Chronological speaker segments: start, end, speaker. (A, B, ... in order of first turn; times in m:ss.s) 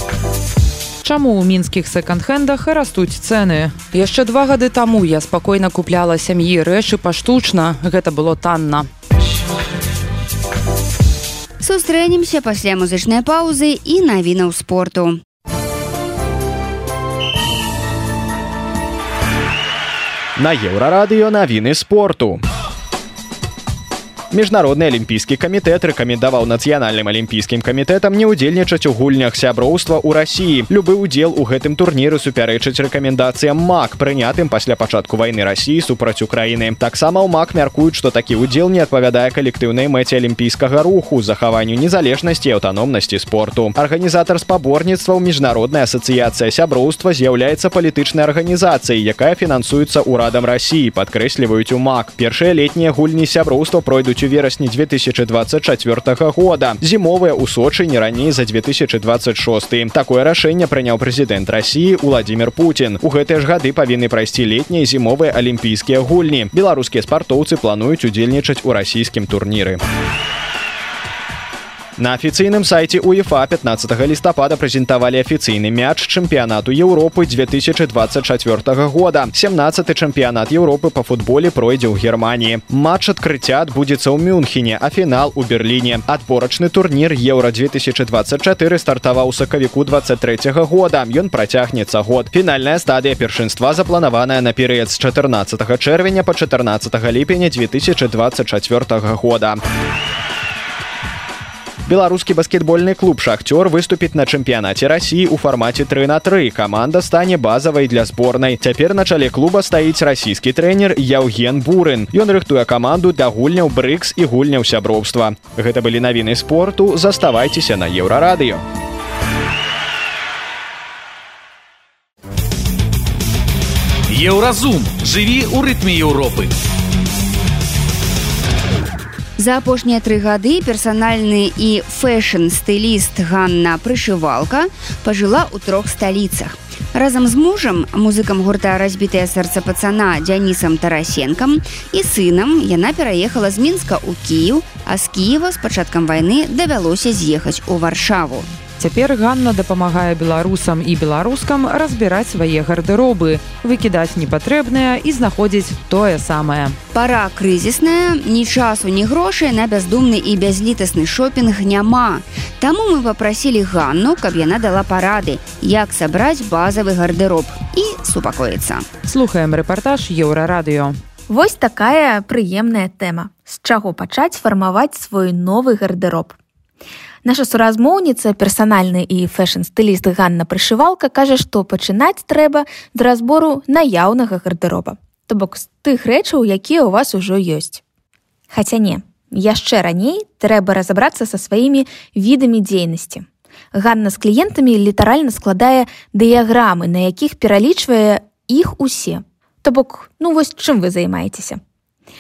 0:01.0-0:08.9 A
0:11.6-0:15.2 B
0:20.4-0:22.4 C
0:24.3-1:09.8 C
1:12.0-1:39.6 C
1:41.9-1:58.6 C
2:04.1-2:06.5 D
2:09.4-2:28.5 B
2:28.8-2:36.8 A
2:36.9-2:48.9 B
2:49.1-2:51.0 A
2:51.3-2:56.4 E
2:57.2-3:07.8 E
3:08.5-3:21.6 E